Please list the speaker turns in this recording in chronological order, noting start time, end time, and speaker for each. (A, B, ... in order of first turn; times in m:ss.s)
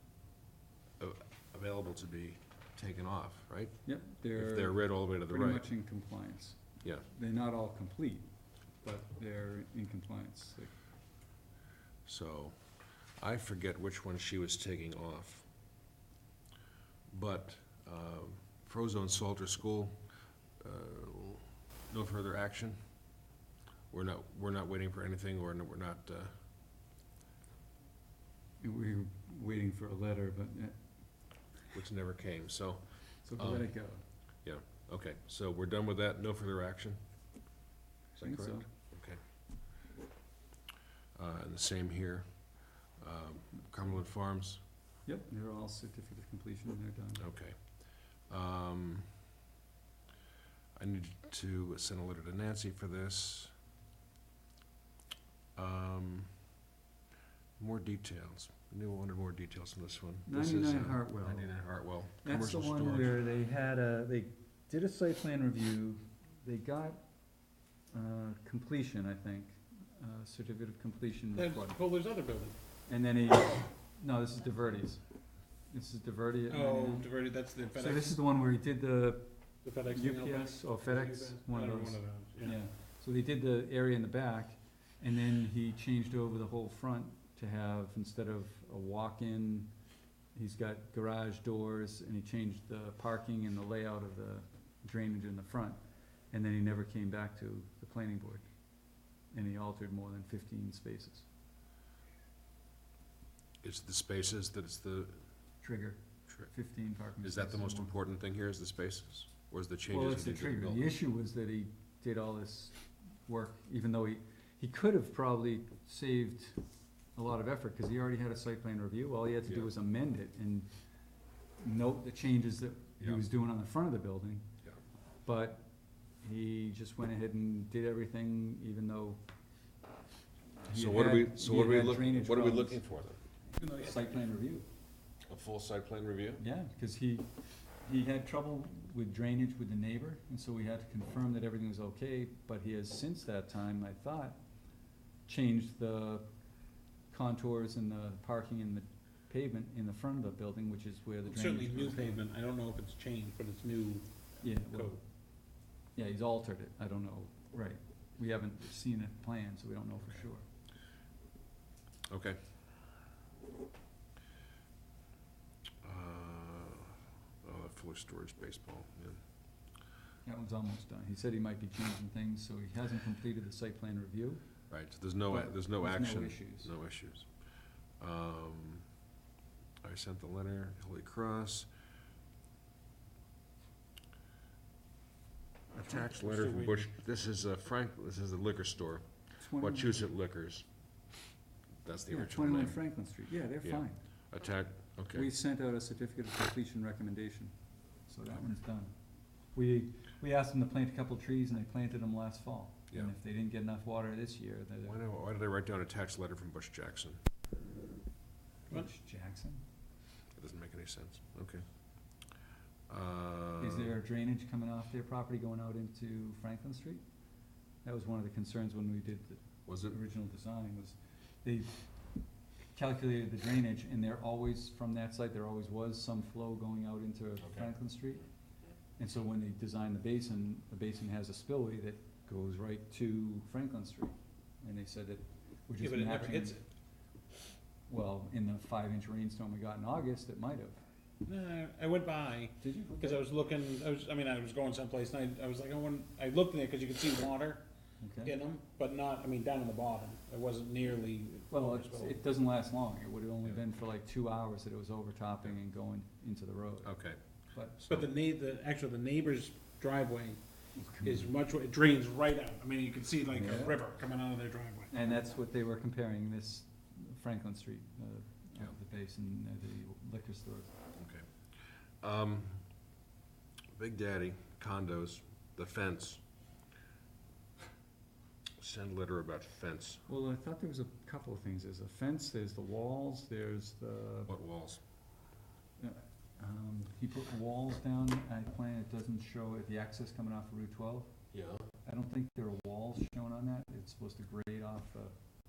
0:01.0-0:03.8 A
0:03.8-0:08.3 B
0:04.3-0:05.6 A
0:08.8-0:10.7 B
0:12.0-0:15.5 A
0:17.1-0:20.0 A
0:20.6-0:22.8 A
0:23.9-0:26.3 A
0:28.6-0:30.8 B
0:31.7-0:33.7 A
0:33.2-0:34.0 B
0:34.4-0:37.0 A
0:38.2-0:38.7 B
0:38.2-0:39.2 A
0:41.2-0:44.6 A
0:45.0-0:47.3 B
0:47.2-0:49.1 A
0:50.8-0:53.5 A
0:55.6-0:56.3 A
0:57.6-1:03.2 A
1:00.2-1:01.6 B
1:02.2-1:07.0 B
1:07.9-1:11.8 B
1:11.4-1:12.6 C
1:12.9-1:15.0 B
1:15.7-1:17.1 B
1:16.5-1:18.2 C
1:17.7-1:29.7 B
1:19.6-1:22.6 C
1:30.3-1:35.8 B
1:36.3-1:38.5 B
1:39.3-1:41.3 B
1:43.6-1:45.2 A
1:45.6-1:47.9 B
1:47.2-1:50.9 A
1:49.9-1:56.6 B
1:57.1-2:00.7 B
2:01.6-2:04.4 B
2:05.2-2:05.7 B
2:06.2-2:09.2 B
2:10.6-2:12.8 B
2:10.7-2:13.2 A
2:13.5-2:14.7 B
2:13.6-2:13.9 C
2:15.3-2:16.4 A
2:16.4-2:24.4 B
2:25.3-2:26.3 B
2:27.1-2:32.2 B
2:31.3-2:35.0 C
2:34.4-2:40.4 B
2:42.1-2:42.4 A
2:45.8-2:49.2 A
2:50.2-2:54.4 B
2:54.7-2:57.3 A
2:55.3-2:56.7 B
2:58.0-2:58.8 A
2:59.8-3:01.7 A
3:05.7-3:10.7 A
3:06.0-3:06.9 C
3:09.4-3:10.0 B
3:11.8-3:12.8 A
3:12.1-3:14.0 B
3:13.6-3:15.3 A
3:15.1-3:17.6 B
3:18.1-3:18.9 B
3:19.5-3:25.0 B
3:24.8-3:27.2 A
3:28.7-3:29.6 B
3:30.4-3:31.6 A
3:32.9-3:33.9 A
3:33.6-3:37.0 B
3:37.8-3:41.8 B
3:39.7-3:40.0 A
3:42.7-3:48.2 B
3:47.4-3:47.7 A
3:49.0-3:56.6 B
3:55.8-3:56.6 C
3:57.9-4:00.8 B
4:01.2-4:07.7 C
4:02.6-4:03.2 B
4:08.0-4:08.3 B
4:08.2-4:12.2 C
4:11.5-4:16.9 B
4:16.8-4:17.2 A
4:17.5-4:17.8 B
4:17.8-4:18.1 A
4:17.9-4:24.9 C
4:20.8-4:21.3 B
4:23.3-4:23.8 B
4:24.9-4:30.8 B
4:31.0-4:31.3 A
4:32.0-4:32.7 A
4:33.7-4:36.2 A
4:38.6-4:40.0 A
4:40.1-4:44.3 B
4:44.2-4:44.8 A
4:45.8-4:51.1 B
4:51.3-4:51.7 A
4:51.8-4:55.1 B